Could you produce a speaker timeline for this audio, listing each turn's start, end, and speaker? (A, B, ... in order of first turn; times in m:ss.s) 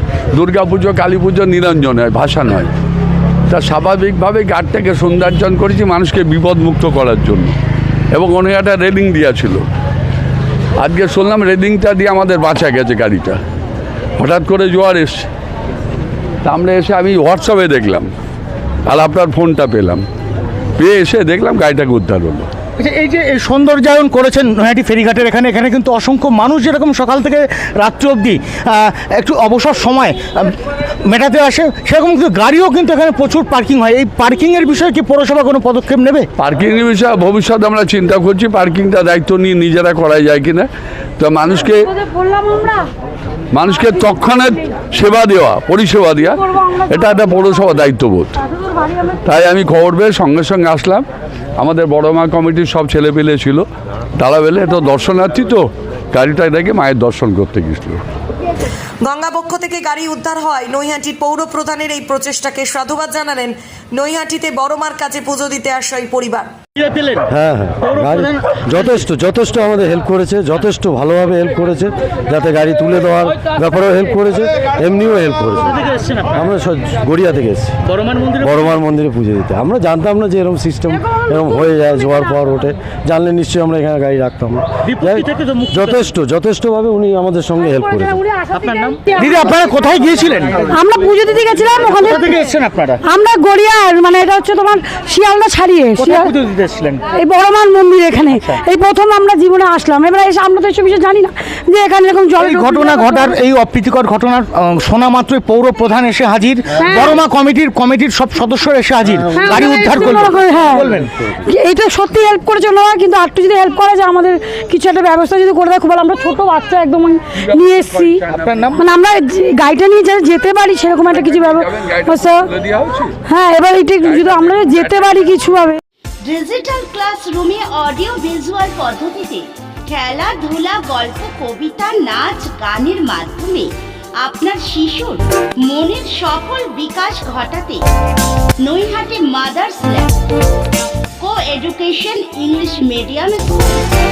0:00.4-0:02.7 A
0:03.5-0:07.5 A
0:08.1-0:09.6 A
0:10.8-0:13.4 A
0:14.2-0:15.3 A
0:16.4-0:18.1 A
0:18.9-0:20.0 A
0:20.8-0:22.5 A
0:22.8-0:36.3 B
0:36.4-0:41.9 A
0:43.5-0:48.4 A
0:49.2-0:51.0 A
0:51.6-0:53.6 A
0:54.2-0:58.0 A
0:59.0-1:06.5 C
1:06.8-1:07.3 B
1:07.3-1:15.8 D
1:07.8-1:09.0 B
1:15.6-1:16.4 B
1:16.3-1:17.8 D
1:17.9-1:18.8 B
1:18.4-1:28.2 D
1:24.8-1:26.1 B
1:28.3-1:29.5 E
1:28.5-1:30.8 B
1:30.7-1:32.4 E
1:31.9-1:33.0 B
1:33.0-1:36.3 E
1:36.0-1:37.0 B
1:37.1-1:43.4 E
1:38.2-1:38.6 B
1:42.4-1:51.1 B
1:46.8-1:47.2 E
1:49.3-1:50.9 E
1:51.5-1:58.2 E
1:57.6-1:58.6 A
1:58.3-1:58.9 B
1:58.8-2:02.5 E
2:01.1-2:03.2 A
2:03.3-2:05.8 E
2:04.0-2:05.5 A
2:06.2-2:17.8 F
2:18.6-2:20.1 F
2:21.2-2:23.8 F